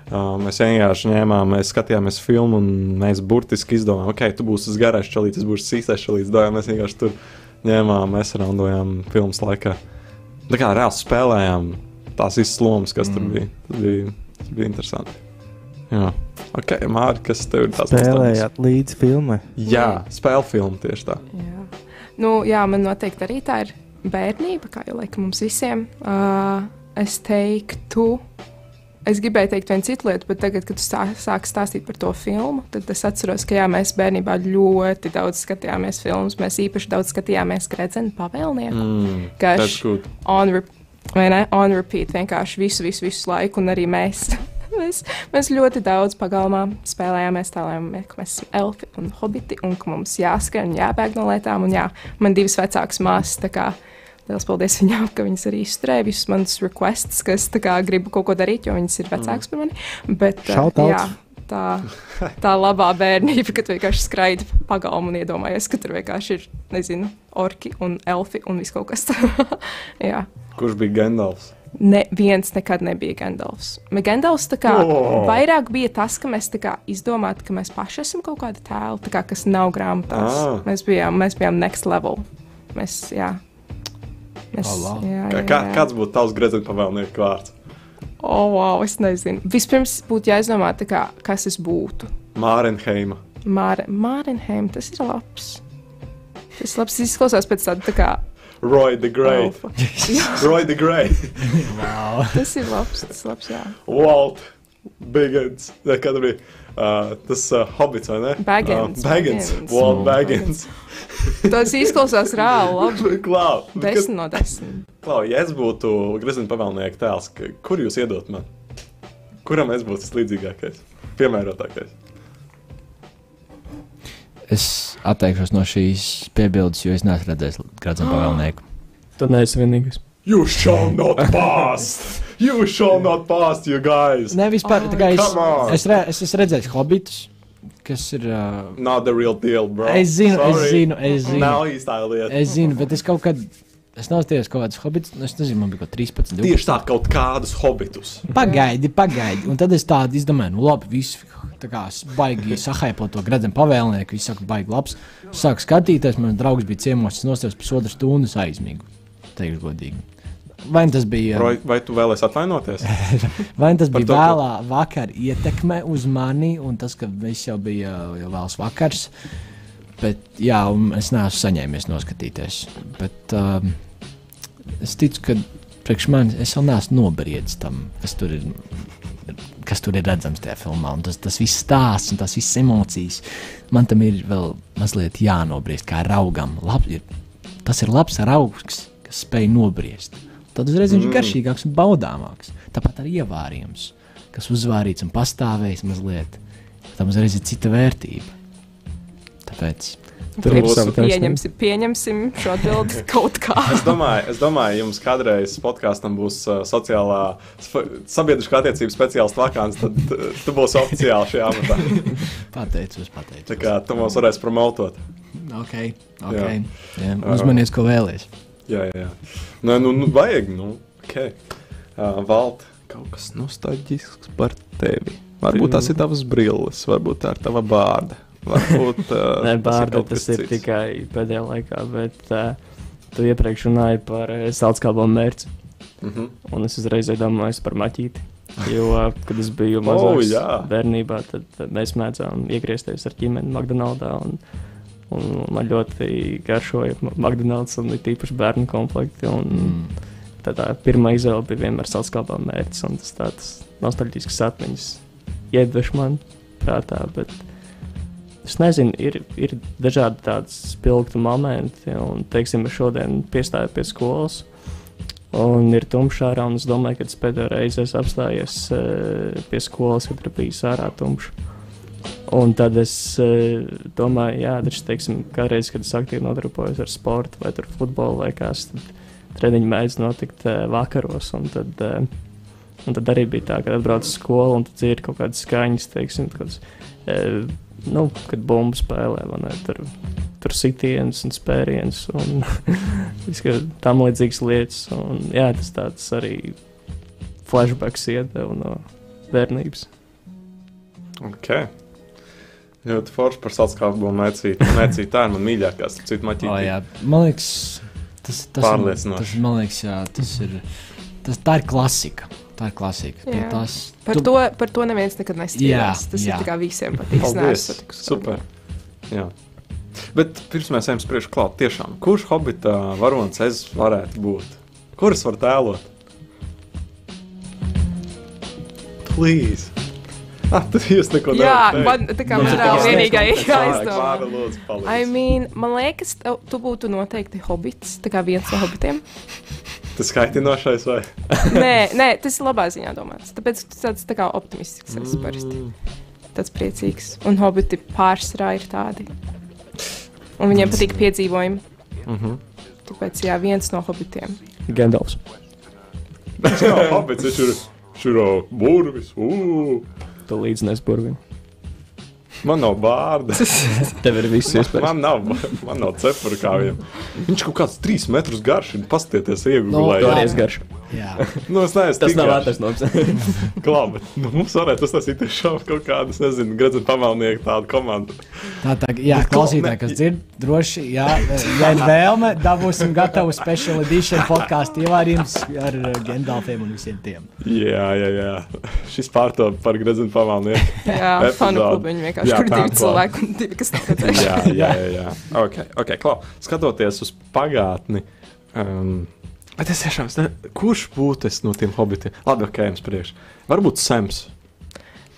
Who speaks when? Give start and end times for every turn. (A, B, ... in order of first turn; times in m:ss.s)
0:00.1-0:09.8 A
0:10.5-0:15.2 A
0:13.0-0:13.4 B
0:15.9-0:18.5 A
0:17.9-0:19.5 C
0:19.6-0:21.2 A
0:19.7-0:20.0 D
0:21.3-0:28.2 D
0:29.0-1:10.3 D
0:38.7-0:40.1 A
0:59.2-0:59.4 A
1:00.5-1:01.1 C
1:10.6-1:11.5 A
1:11.8-1:23.4 D
1:14.7-1:15.4 A
1:20.1-1:20.7 A
1:24.5-1:25.9 D
1:24.6-1:25.1 B
1:25.3-1:27.5 A
1:28.2-1:32.1 D
1:32.4-1:33.2 A
1:33.4-1:35.6 D
1:36.6-1:38.2 D
1:38.6-1:41.7 A
1:39.2-1:40.4 D
1:39.8-1:40.3 B
1:41.6-1:42.6 B
1:42.3-1:43.8 D
1:43.9-1:51.8 A
1:48.4-1:50.6 D
1:49.8-1:50.2 B
1:51.4-1:53.2 D
1:52.4-1:58.5 A
1:53.8-1:54.8 D
1:59.4-2:01.9 A
2:04.5-2:08.6 B
2:09.2-2:10.0 E
2:10.2-2:15.9 A
2:14.3-2:18.8 B
2:14.6-2:15.7 D
2:18.8-2:22.6 A
2:19.8-2:26.8 B
2:21.2-2:21.5 D
2:26.4-2:28.3 A
2:28.3-2:41.6 B
2:28.4-2:28.6 D
2:41.3-2:43.0 A
2:42.9-2:49.1 B
2:43.9-2:44.4 A
2:50.0-2:54.2 B
2:54.8-3:07.1 B
3:07.6-3:18.4 B
3:10.9-3:11.4 A
3:19.4-3:20.3 B
3:20.4-3:23.9 D
3:20.4-3:21.4 E
3:20.4-3:21.0 A
3:20.5-3:20.9 C
3:23.7-3:32.3 A
3:32.1-3:33.7 B
3:33.5-3:35.0 A
3:35.4-3:38.3 B
3:36.3-3:37.6 A
3:38.7-3:50.6 A
3:45.5-3:45.9 E
3:49.4-3:56.0 E
3:56.0-3:56.3 A
3:56.5-4:59.9 E
3:59.8-4:00.7 A
4:09.5-4:10.0 B
5:01.2-5:01.8 A
5:02.8-5:06.7 A
5:06.4-5:14.3 B
5:08.6-5:09.4 A
5:13.3-5:18.4 D
5:15.5-5:17.2 B
5:17.2-5:18.4 A
5:19.1-5:19.3 A
5:20.0-5:25.9 A
5:29.0-5:29.8 A
5:30.5-5:35.1 A
5:31.3-5:39.4 D
5:32.3-5:34.2 E
5:32.3-5:32.9 B
5:39.9-5:41.6 A
5:41.5-5:45.7 D
5:44.9-5:45.8 A
5:46.3-5:49.1 D
5:50.4-5:51.6 D
5:50.5-5:51.0 B
5:52.1-5:52.4 A
5:52.8-5:54.4 D
5:54.7-5:55.2 E
5:56.4-5:59.8 A
6:00.3-6:01.2 E
6:02.4-6:03.9 A
6:03.9-6:05.0 E
6:04.5-6:10.4 A
6:09.7-6:11.3 B
6:10.0-6:13.6 E
6:11.5-6:12.6 A
6:13.5-6:20.0 A
6:18.6-6:27.3 B
6:21.2-6:21.9 A
6:27.4-6:33.4 A
6:30.9-6:34.4 D
6:34.0-6:44.3 A
6:34.2-6:34.8 B